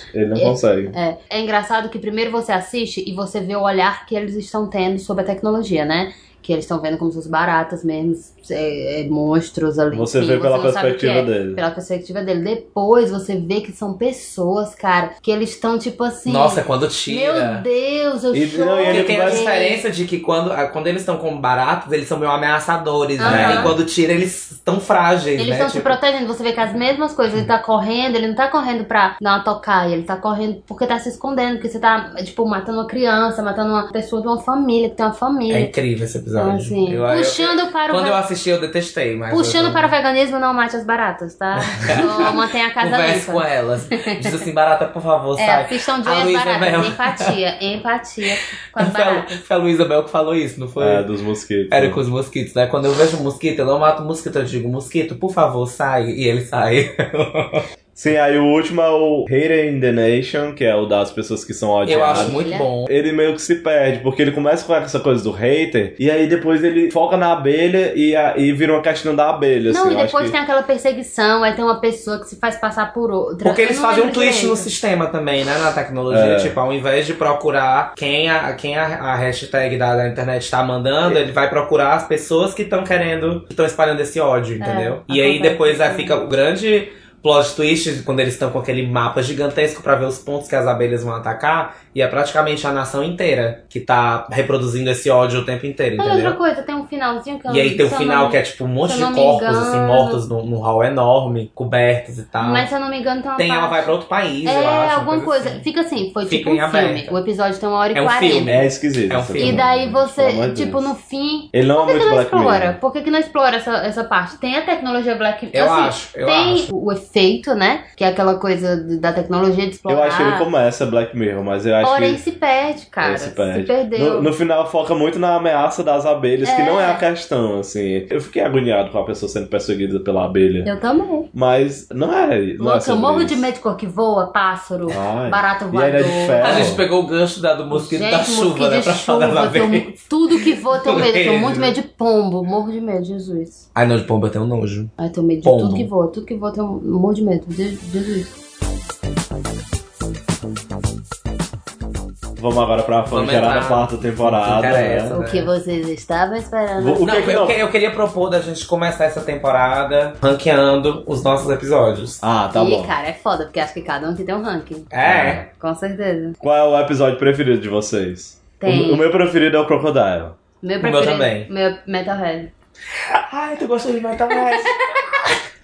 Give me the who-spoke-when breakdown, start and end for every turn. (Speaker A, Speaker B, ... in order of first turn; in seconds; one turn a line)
Speaker A: 0.1-0.9
Speaker B: 0.3-19.8
Speaker A: 9.9-11.6
Speaker C: 16.3-17.6
Speaker A: 18.3-19.5
Speaker C: 18.9-26.0
Speaker B: 23.2-23.8
Speaker A: 23.2-23.8
Speaker B: 25.4-35.7
Speaker C: 35.5-39.9
Speaker B: 36.4-38.2
Speaker B: 39.3-43.5
Speaker C: 41.6-47.4
Speaker B: 44.0-44.4
Speaker B: 45.4-49.4
Speaker C: 48.8-51.1
Speaker A: 50.8-52.0
Speaker C: 51.7-57.6
Speaker A: 58.0-70.3
Speaker C: 61.9-62.9
Speaker B: 61.9-62.7
Speaker B: 69.7-74.7
Speaker C: 73.4-96.4
Speaker A: 76.1-76.6
Speaker B: 84.6-86.2
Speaker B: 96.0-100.2
Speaker C: 97.5-102.7
Speaker B: 102.4-108.5
Speaker C: 103.4-105.7
Speaker C: 106.3-107.2
Speaker C: 107.9-109.6
Speaker A: 108.5-110.9
Speaker B: 109.4-120.5
Speaker A: 111.5-112.8
Speaker C: 115.5-116.7
Speaker A: 119.9-122.2
Speaker B: 121.8-124.3
Speaker A: 123.0-130.7
Speaker B: 126.4-127.0
Speaker B: 130.7-131.3
Speaker A: 131.3-133.5
Speaker B: 132.6-136.8
Speaker A: 134.9-136.8
Speaker C: 136.4-141.8
Speaker B: 137.7-143.7
Speaker C: 143.8-145.9
Speaker B: 145.0-148.3
Speaker A: 152.4-155.2
Speaker C: 153.1-155.5
Speaker B: 155.1-157.2
Speaker A: 156.8-157.6
Speaker C: 157.0-162.2
Speaker A: 162.2-162.9
Speaker B: 162.5-164.9
Speaker C: 164.9-165.4
Speaker A: 165.0-165.5
Speaker B: 165.5-166.4
Speaker A: 166.4-170.4
Speaker B: 168.6-169.1
Speaker B: 170.6-172.5
Speaker C: 170.8-171.5
Speaker C: 173.0-174.8
Speaker B: 174.3-175.3